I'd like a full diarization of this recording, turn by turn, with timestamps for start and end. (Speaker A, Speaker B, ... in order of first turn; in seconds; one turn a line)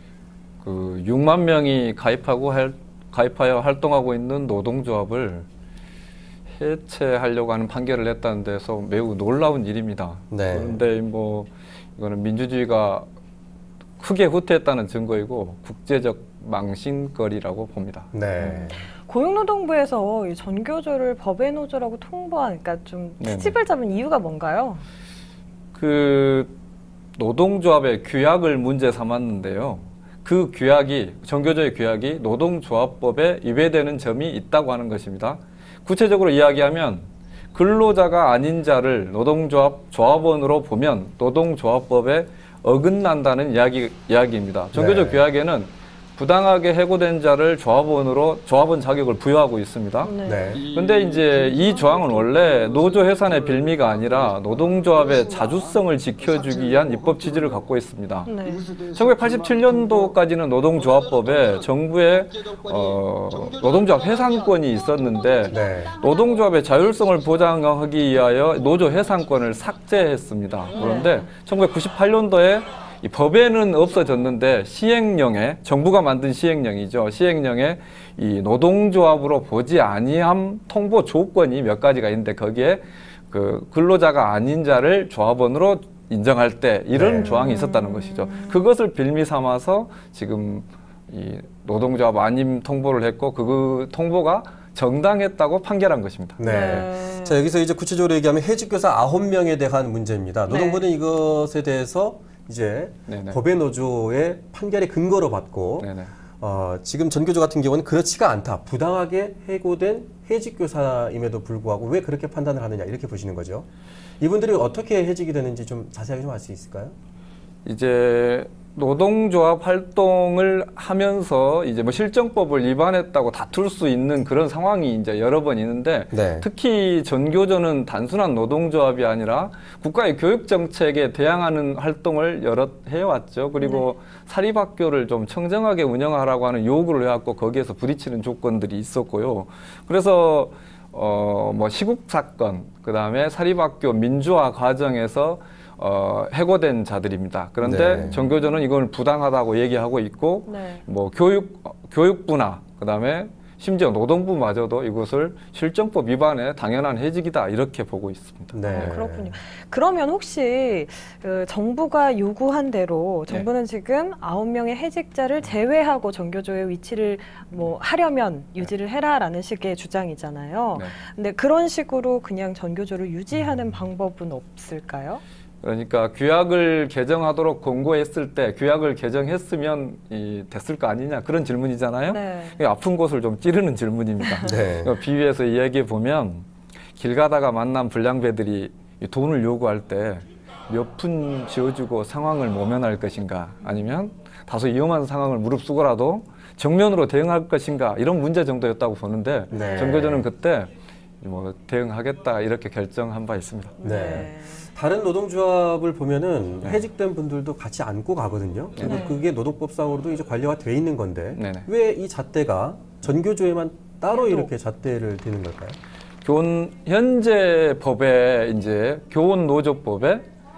Speaker A: 0.6-5.5
Speaker A: 6.5-13.1
Speaker B: 10.3-10.8
Speaker A: 14.0-18.1
Speaker B: 18.1-18.8
Speaker C: 18.4-24.8
Speaker A: 23.2-23.5
Speaker A: 25.7-26.5
Speaker A: 27.1-50.1
Speaker B: 44.7-45.2
Speaker C: 50.0-50.6
Speaker B: 50.2-50.6
Speaker A: 50.6-58.3
Speaker C: 58.2-58.6
Speaker A: 58.8-96.8
Speaker B: 65.5-66.0
Speaker C: 70.8-71.2
Speaker B: 86.9-87.5
Speaker C: 87.4-88.5
Speaker B: 96.4-105.9
Speaker C: 96.4-97.4
Speaker C: 100.5-100.8
Speaker A: 103.1-103.4
Speaker A: 105.8-106.1
Speaker B: 106.4-113.7
Speaker B: 114.2-116.9
Speaker A: 117.6-159.0
Speaker B: 126.1-126.5
Speaker C: 133.6-133.8
Speaker B: 147.6-148.2
Speaker C: 148.0-148.4
Speaker C: 150.5-150.8
Speaker B: 158.5-159.4
Speaker C: 158.6-175.2
Speaker A: 175.6-186.4
Speaker C: 182.1-182.6
Speaker B: 184.4-184.9
Speaker A: 186.9-200.7
Speaker C: 199.5-200.0
Speaker B: 199.5-200.3
Speaker A: 201.2-203.8
Speaker C: 203.8-204.7
Speaker B: 203.8-215.8
Speaker C: 208.8-209.2
Speaker A: 211.3-211.7
Speaker C: 214.1-214.5
Speaker A: 216.2-220.2